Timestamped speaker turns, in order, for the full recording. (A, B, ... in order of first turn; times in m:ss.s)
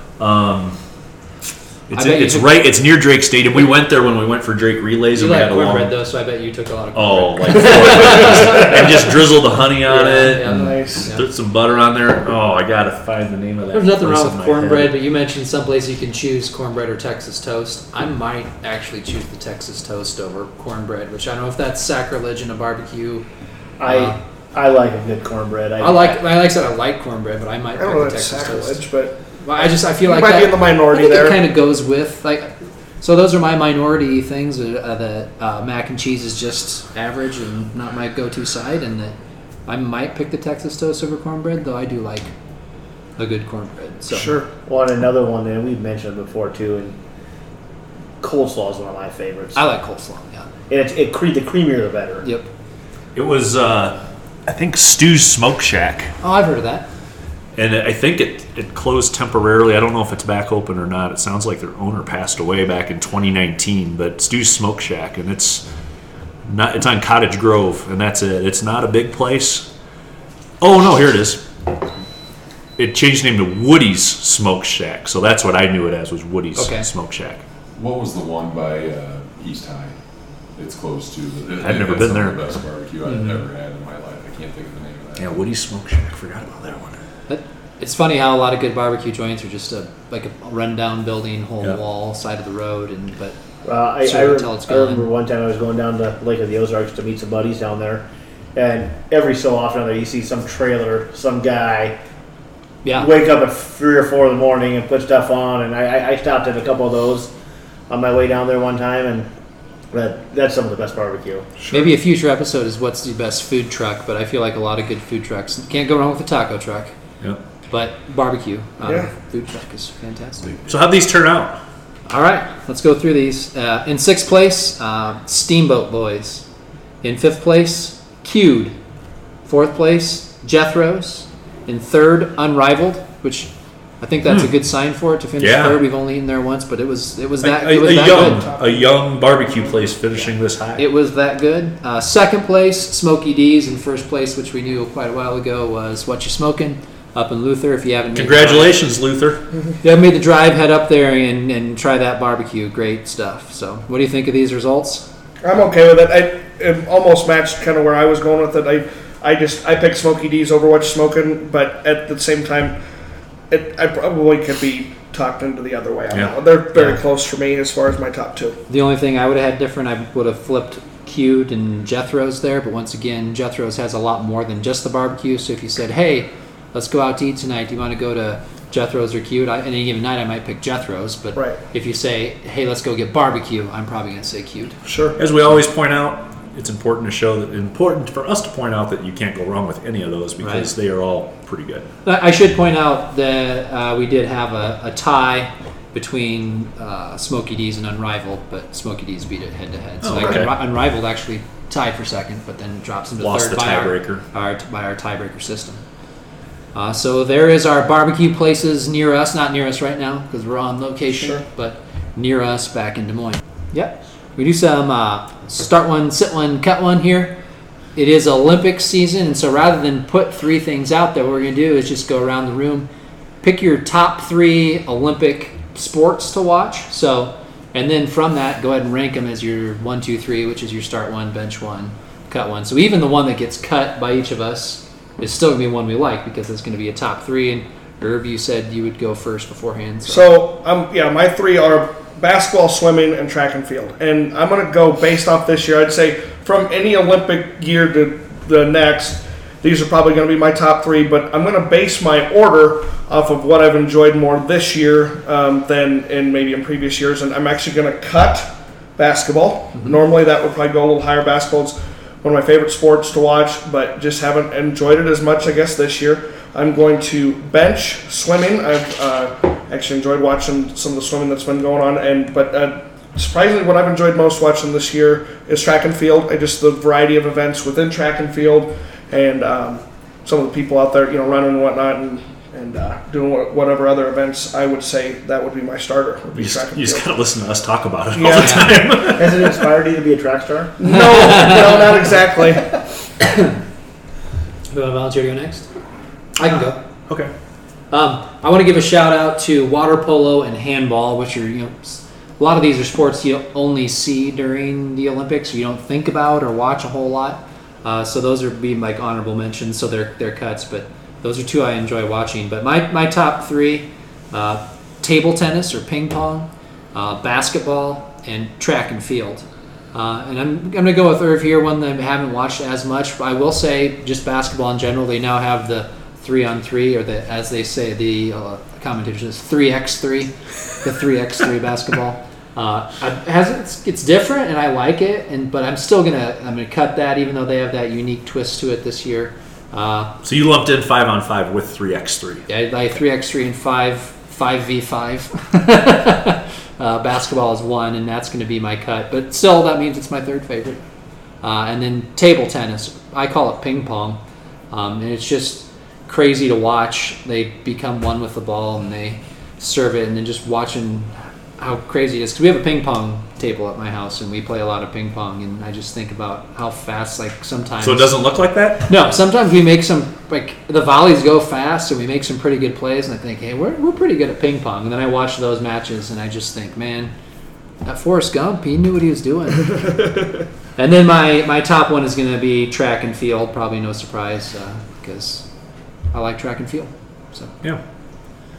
0:00.2-0:00.8 A
0:01.9-0:06.0 A
0:01.9-0:02.5 B
0:05.1-0:09.2 B
0:07.0-0:15.0 A
0:09.8-0:11.2 B
0:10.4-0:11.0 C
0:13.7-0:23.3 B
0:23.8-0:26.2 D
0:23.9-0:24.2 B
0:25.8-0:28.8 B
0:27.8-0:31.4 C
0:29.4-0:39.2 B
0:39.7-0:42.3 B
0:43.2-0:44.4 B
0:44.1-0:44.5 C
0:44.7-0:47.0 D
0:48.2-0:49.6 D
0:49.6-0:50.5 B
0:50.7-0:52.3 D
0:53.1-0:56.1 A
0:56.2-0:56.9 B
0:57.6-1:05.6 A
1:06.4-1:09.7 A
1:10.6-1:11.5 A
1:12.8-1:17.4 A
1:16.6-1:16.9 B
1:17.8-1:20.0 E
1:20.6-1:25.3 E
1:21.6-1:22.4 A
1:25.2-1:27.0 A
1:27.3-1:33.4 B
1:33.6-1:42.0 D
1:34.0-1:35.1 B
1:42.8-1:43.1 B
1:43.0-1:47.3 D
1:47.9-1:49.3 D
1:49.9-1:51.5 D
1:51.6-1:51.9 C
1:51.7-1:56.9 B
1:57.7-2:00.5 B
1:58.8-1:59.1 C
2:00.7-2:01.6 A
2:02.1-2:06.4 B
2:07.0-2:08.8 B
2:09.4-2:13.5 B
2:14.0-2:18.5 B
2:15.4-2:15.8 A
2:17.4-2:20.8 A
2:17.8-2:19.9 C
2:20.2-2:28.8 B
2:28.1-2:29.4 A
2:29.8-2:35.1 B
2:35.4-2:42.8 C
2:43.5-2:48.6 C
2:48.7-3:04.8 B
3:04.8-3:05.2 C
3:05.2-3:11.9 A
3:10.4-3:10.7 B
3:12.0-3:25.8 B
3:20.0-3:20.6 A
3:23.2-3:24.2 A
3:26.7-3:37.4 B
3:31.1-3:31.4 C
3:38.0-3:42.9 B
3:43.4-4:00.2 B
4:00.1-4:47.1 C
4:46.4-4:49.7 A
4:48.2-4:48.8 C
4:48.2-4:48.7 B
4:49.0-4:50.9 D
4:50.8-4:52.8 C
4:51.1-4:51.8 B
4:53.2-4:53.6 B
4:54.7-4:55.7 B
4:56.4-4:56.8 B
4:57.9-5:40.1 B
5:40.2-5:42.5 A
5:42.5-5:50.8 B
5:51.4-5:54.2 B
5:54.7-6:08.2 B
6:07.8-6:08.9 A
6:08.9-6:17.1 B
6:17.8-6:19.9 B
6:20.8-6:25.5 B
6:26.1-6:27.5 B